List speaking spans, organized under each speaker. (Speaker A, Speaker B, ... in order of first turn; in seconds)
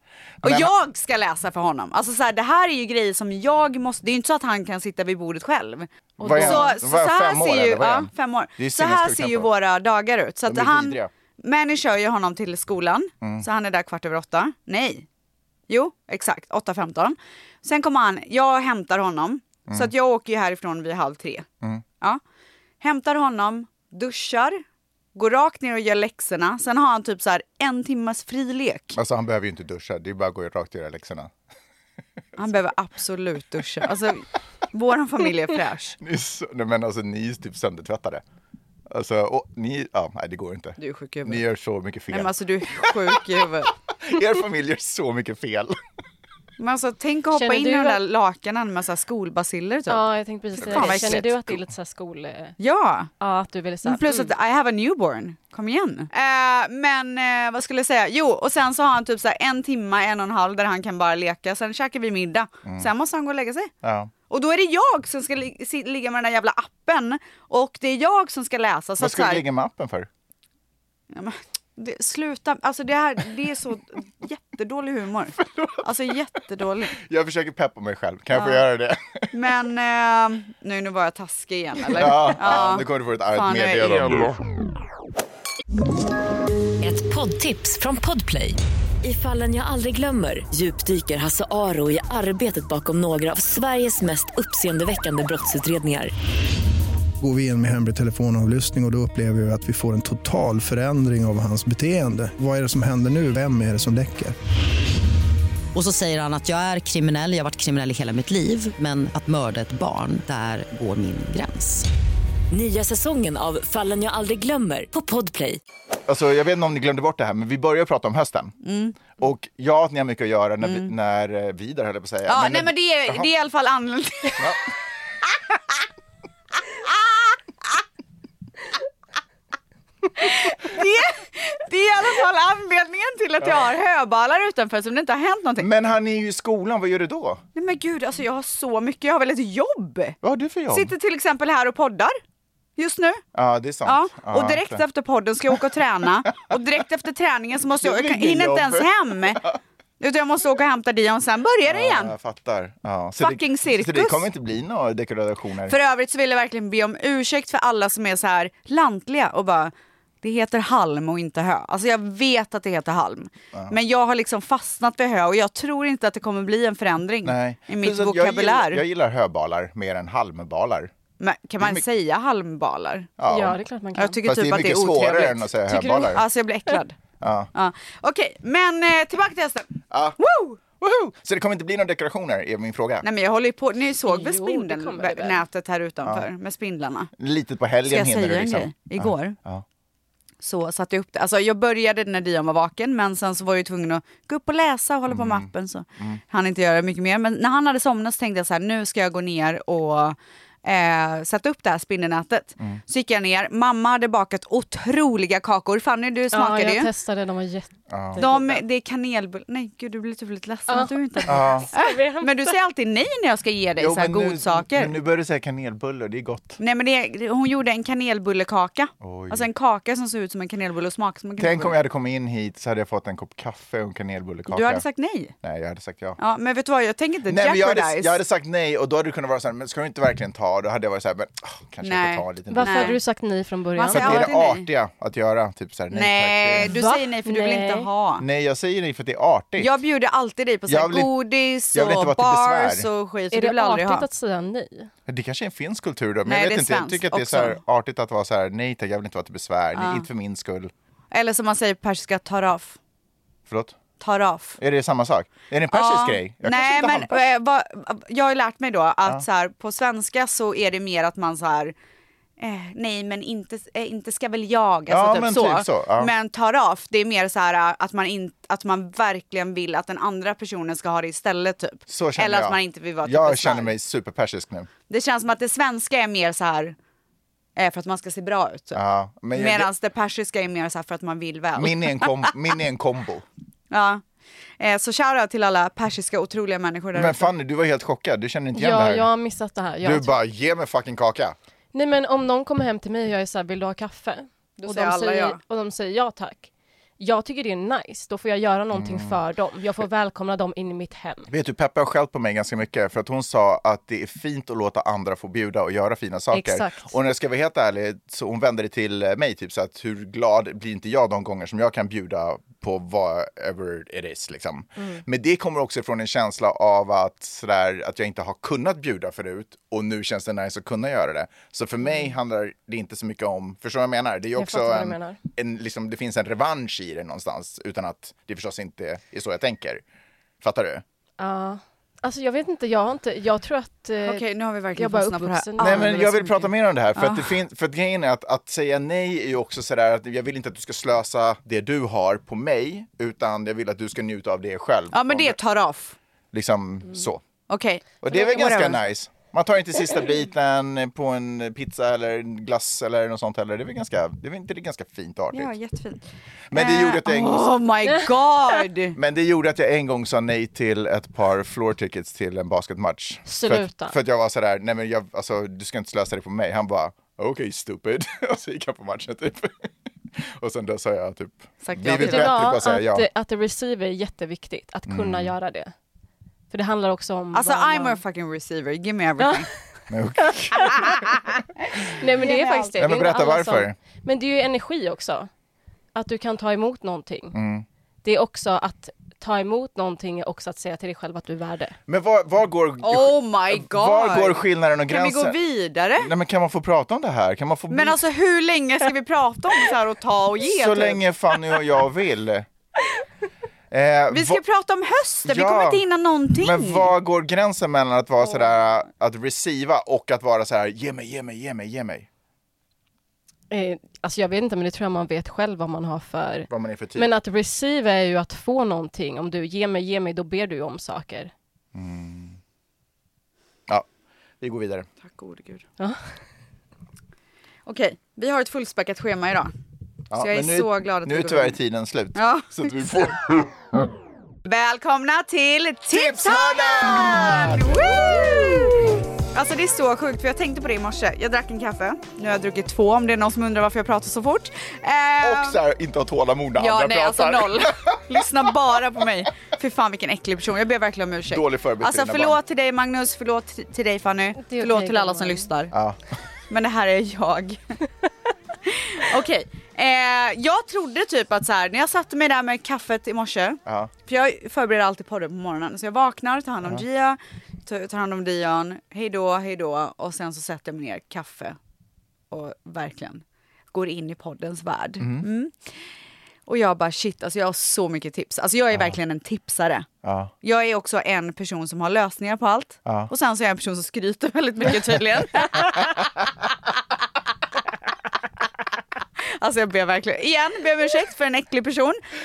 Speaker A: 0.4-0.7, 6.2-9.5, 10.4-11.1, 28.9-31.3, 36.0-38.2, 38.9-45.8, 50.6-51.2, 63.8-64.1, 69.0-70.1, 75.5-75.9, 77.0-79.3, 81.9-84.4, 116.1-118.5, 119.2-123.3, 133.4-133.7, 135.6-137.4, 140.2-140.9, 143.3-144.8, 147.8-149.4, 151.6-155.8, 167.2-170.9, 173.2-173.6, 174.2-176.2, 177.2-177.5, 179.9-180.2, 180.8-183.1, 187.2-189.6, 195.1-196.2, 207.9-208.3, 211.3-211.7, 213.8-216.6, 219.0-219.5, 221.4-224.8, 225.4-226.2, 227.3-232.9, 233.9-236.7, 238.2-239.7, 240.7-241.1, 241.7-242.9, 245.1-250.7, 253.5-253.8, 254.6-257.2, 264.9-266.1, 271.9-274.7, 278.7-279.7, 281.6-283.2, 286.9-289.1, 289.8-291.4, 298.7-299.2, 301.3-329.8, 330.4-330.8, 335.6-345.4, 346.3-347.2, 348.0-355.5, 356.5-357.5, 358.9-373.1, 374.9-375.3, 379.9-381.1, 382.8-383.8, 387.3-387.6, 391.9-395.4, 396.0-398.0, 400.4-402.5, 403.7-404.4, 405.2-405.8, 406.4-412.1, 416.5-417.1, 421.7-422.4, 424.4-424.9, 430.1-433.5, 435.9-438.9, 445.2-448.2, 451.3-452.4, 455.7-456.0, 463.6-463.9, 475.0-475.2, 478.7-479.0, 480.0-480.3, 482.9-483.1
Speaker B: 0.4-15.1, 15.7-21.5, 22.8-24.6, 25.1-29.0, 32.4-36.0, 40.8-41.4, 42.1-43.7, 46.6-50.1, 50.6-51.4, 52.6-53.1, 53.8-63.7, 64.3-69.4, 71.1-77.0, 78.3-78.6, 79.3-84.2, 118.6-119.1, 120.6-120.9, 122.2-124.5, 126.8-127.3, 130.2-135.7, 137.5-140.2, 140.7-142.2, 142.8-143.2, 143.8-152.1, 153.2-154.2, 155.7-168.8, 171.2-173.1, 173.9-177.0, 177.5-180.6, 183.0-187.1, 187.8-189.3, 190.4-206.9, 208.2-214.9, 216.6-221.8, 224.5-225.3, 226.2-228.2, 231.8-233.0, 233.8-234.7, 235.9-238.2, 239.6-244.1, 246.2-247.6, 249.7-250.1, 251.1-252.8, 254.0-254.6, 255.7-261.7, 262.4-273.7, 274.9-276.8, 277.6-278.8, 279.3-282.3, 283.7-284.0, 284.6-287.3, 294.6-295.4, 334.0-336.3, 336.9-337.3, 344.9-345.9, 347.5-348.8, 355.3-359.0, 371.6-372.4, 377.3-379.5, 380.7-381.1, 381.7-383.0, 392.8-396.1, 397.7-401.0, 404.1-406.9, 425.0-425.6, 427.6-429.5, 430.1-431.6, 432.1-433.1, 434.4-438.8, 439.3-445.6, 446.6-455.7, 456.5-457.7, 458.6-471.6, 472.3-475.8, 476.5-479.9, 480.4-486.1, 489.4-492.0
Speaker C: 6.2-6.8, 47.3-48.0, 49.9-52.5, 53.2-54.2, 173.3-174.2, 184.1-185.4, 206.3-208.6, 210.7-212.5, 232.5-234.3, 236.6-237.9, 243.3-244.9, 288.5-290.1, 291.7-301.3, 306.3-306.9, 314.8-315.0, 324.4-325.2, 331.2-334.2, 334.8-336.4, 363.2-363.9, 372.0-375.7, 376.5-378.0, 380.5-380.8, 381.8-385.3, 385.9-387.4, 388.0-391.8, 413.5-421.3, 454.4-455.5
Speaker D: 86.8-96.1, 112.5-115.6
Speaker E: 97.2-104.3
Speaker F: 105.7-111.9